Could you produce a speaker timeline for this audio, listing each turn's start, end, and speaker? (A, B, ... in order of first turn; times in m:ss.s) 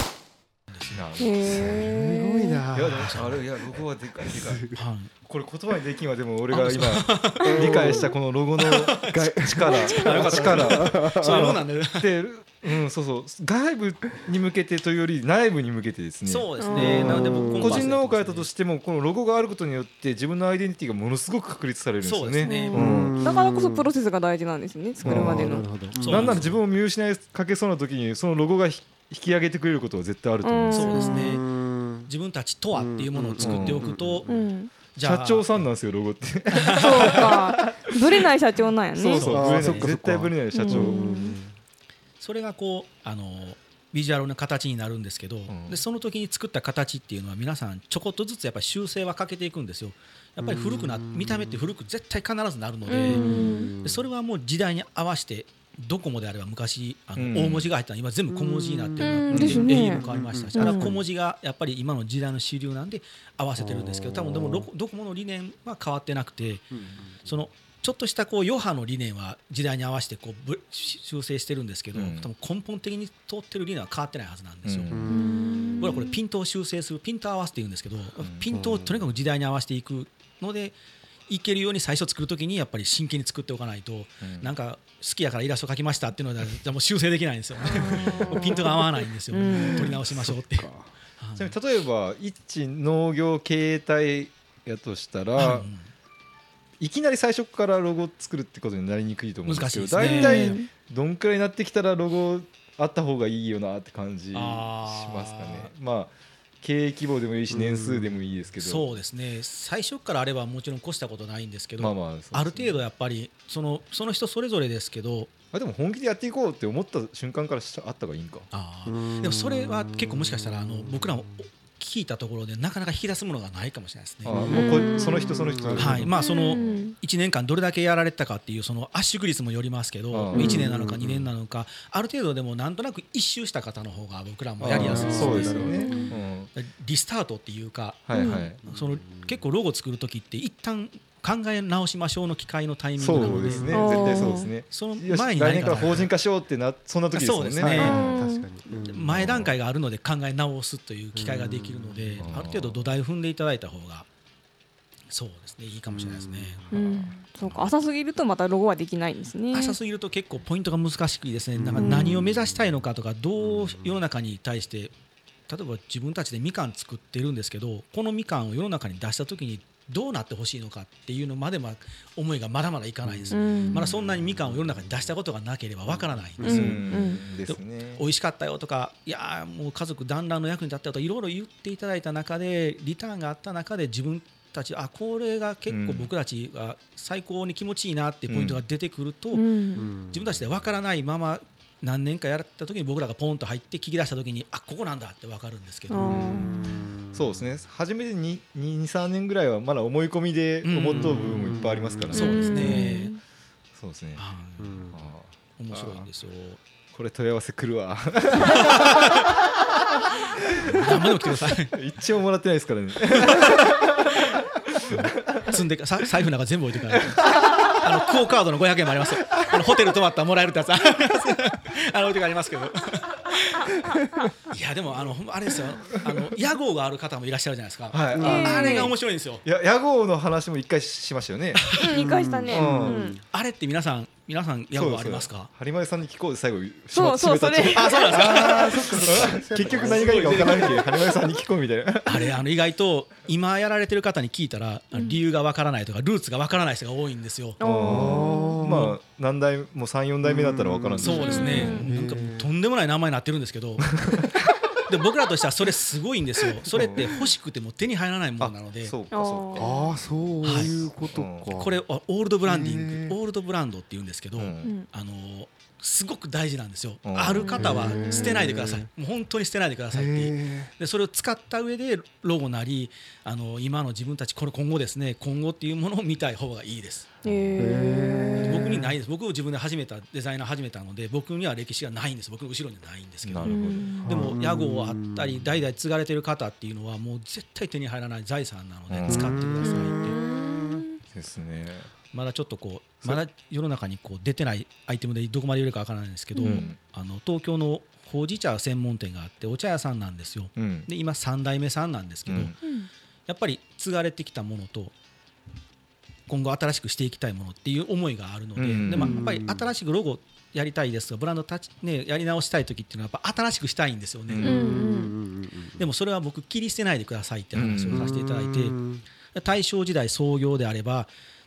0:00.7-0:01.1 A
0:00.9-0:02.0 B
0:01.2-0:02.6 C
0:01.7-0:03.2 D
0:02.7-0:04.7 B
0:02.9-0:03.4 A
0:04.3-0:04.8 D
0:04.8-0:05.1 A
0:05.2-0:23.1 B
0:06.5-0:07.8 A
0:07.4-0:08.1 D
0:08.6-0:12.1 A
0:09.1-0:11.4 D
0:16.2-0:18.5 A
0:16.6-0:17.2 C
0:16.7-0:17.9 D
0:22.0-0:22.8 A
0:22.4-0:25.7 C
0:22.7-0:23.9 D
0:25.0-0:31.1 B
0:25.0-0:26.6 D
0:26.0-0:26.6 A
0:30.4-0:31.4 C
0:30.7-0:31.5 A
0:31.0-0:32.1 D
0:32.0-0:34.3 A
0:32.8-0:34.5 D
0:33.4-0:33.9 B
0:34.3-0:34.7 C
0:34.9-0:35.7 A
0:35.0-0:37.9 B
0:36.5-0:37.4 A
0:36.8-0:39.3 C
0:39.0-0:41.0 B
0:39.1-0:40.0 A
0:39.2-0:41.6 D
0:40.5-0:41.4 C
0:42.2-0:53.3 A
0:45.5-0:45.8 B
0:50.4-0:51.7 D
0:52.9-0:53.7 C
0:53.0-0:54.0 D
0:53.8-1:06.7 A
0:57.2-0:57.7 B
0:58.3-1:01.0 D
0:59.0-1:00.9 C
0:59.3-0:59.8 B
1:03.6-1:04.7 D
1:06.7-1:07.3 D
1:07.2-1:15.0 A
1:11.9-1:12.3 B
1:14.6-1:15.1 B
1:14.9-1:16.0 D
1:15.1-1:16.2 C
1:15.8-1:20.8 A
1:18.2-1:18.5 B
1:18.5-1:19.1 D
1:21.3-1:30.7 A
1:24.2-1:24.5 B
1:27.6-1:28.7 C
1:27.9-1:28.7 D
1:29.3-1:30.0 C
1:29.6-1:30.9 D
1:31.2-1:31.6 A
1:31.4-1:35.7 B
1:35.4-1:35.9 A
1:36.8-1:49.0 B
1:39.4-1:40.6 A
1:40.0-1:40.7 C
1:44.3-1:45.7 A
1:47.5-1:48.1 D
1:48.6-1:55.3 A
1:51.8-1:52.8 B
1:55.5-1:58.5 B
1:58.5-2:04.6 A
1:58.9-2:01.3 D
2:04.2-2:06.1 B
2:04.3-2:06.1 D
2:04.5-2:05.5 C
2:05.7-2:15.9 A
2:06.1-2:06.9 C
2:10.1-2:10.6 B
2:10.3-2:10.6 C
2:10.4-2:11.3 D
2:14.6-2:16.5 B
2:14.7-2:16.1 D
2:15.7-2:16.1 C
2:16.5-2:26.1 A
2:18.1-2:18.6 B
2:18.1-2:18.4 C
2:18.6-2:19.4 D
2:23.0-2:28.2 B
2:23.2-2:23.6 D
2:23.7-2:24.5 C
2:27.1-2:28.0 A
2:27.6-2:29.2 D
2:27.9-2:28.5 C
2:28.7-2:34.1 A
2:29.1-2:29.6 B
2:31.1-2:32.4 D
2:32.2-2:32.9 B
2:35.1-2:36.7 A
2:35.9-2:37.0 D
2:36.7-2:39.8 C
2:36.8-2:37.7 B
2:39.5-2:44.9 A
2:41.5-2:42.8 D
2:41.8-2:42.2 C
2:43.4-2:44.0 D
2:45.5-3:09.5 A
2:53.0-2:54.9 D
2:53.3-2:53.8 C
2:56.4-2:57.3 C
2:56.4-2:58.0 B
3:05.7-3:06.1 B
3:08.3-3:08.6 B
3:09.3-3:09.9 C
3:09.8-3:10.3 D
3:10.0-3:16.2 A
3:15.9-3:16.6 C
3:16.1-3:16.5 B
3:16.3-3:17.4 D
3:17.1-3:22.9 B
3:20.6-3:21.6 A
3:21.0-3:22.8 D
3:22.1-3:23.1 A
3:22.1-3:23.2 C
3:23.7-3:24.2 B
3:24.2-3:24.9 A
3:24.6-3:25.0 D
3:24.9-3:26.1 B
3:25.6-3:26.6 A
3:26.9-3:29.1 B
3:28.5-3:29.5 A
3:30.4-3:31.8 A
3:30.6-3:30.9 B
3:31.7-3:34.4 B
3:33.1-3:33.6 A
3:34.8-3:49.4 A
3:35.2-3:35.5 B
3:36.9-3:37.9 B
3:47.9-3:48.8 B
3:48.2-3:48.9 C
3:49.4-3:51.7 B
3:51.5-3:51.9 A
3:51.8-3:53.2 C
3:51.9-3:53.2 D
3:52.5-3:53.0 B
3:53.3-3:55.5 A
3:54.7-4:02.3 B
3:56.9-3:58.3 C
3:57.7-4:01.2 A
3:58.2-4:00.6 D
4:02.0-4:07.6 A
4:07.6-4:08.6 C
4:07.6-4:11.8 B
4:07.8-4:09.0 D
4:10.2-4:12.5 D
4:11.0-4:14.0 A
4:11.2-4:11.8 C
4:14.8-4:18.9 A
4:16.7-4:17.2 B
4:16.7-4:17.1 D
4:18.4-4:19.8 B
4:19.1-4:19.9 C
4:19.6-4:21.8 D
4:20.4-4:20.8 A
4:20.6-4:21.6 B
4:21.5-4:37.2 A
4:22.4-4:23.2 D
4:24.3-4:24.7 B
4:27.0-4:27.6 B
4:27.3-4:28.4 C
4:27.6-4:28.9 D
4:29.9-4:30.7 D
4:37.2-4:38.4 C
4:37.6-4:38.9 D
4:38.4-4:50.2 A
4:43.2-4:44.0 B
4:43.4-4:44.1 C
4:44.0-4:45.5 D
4:48.9-4:49.4 B
4:49.1-4:50.8 D
4:49.6-4:51.0 C
4:51.1-4:51.9 B
4:52.1-5:02.5 A
4:56.4-4:56.7 C
4:56.4-4:56.8 B
5:00.6-5:00.9 B
5:02.3-5:02.6 B
5:02.6-5:02.9 C
5:03.3-5:04.9 A
5:06.3-5:14.6 A
5:08.6-5:09.2 B
5:08.9-5:09.7 D
5:14.3-5:14.6 B
5:14.4-5:15.1 C
5:14.4-5:15.8 D
5:15.8-5:18.8 A
5:17.5-5:18.1 B
5:17.9-5:19.0 D
5:19.3-5:21.1 A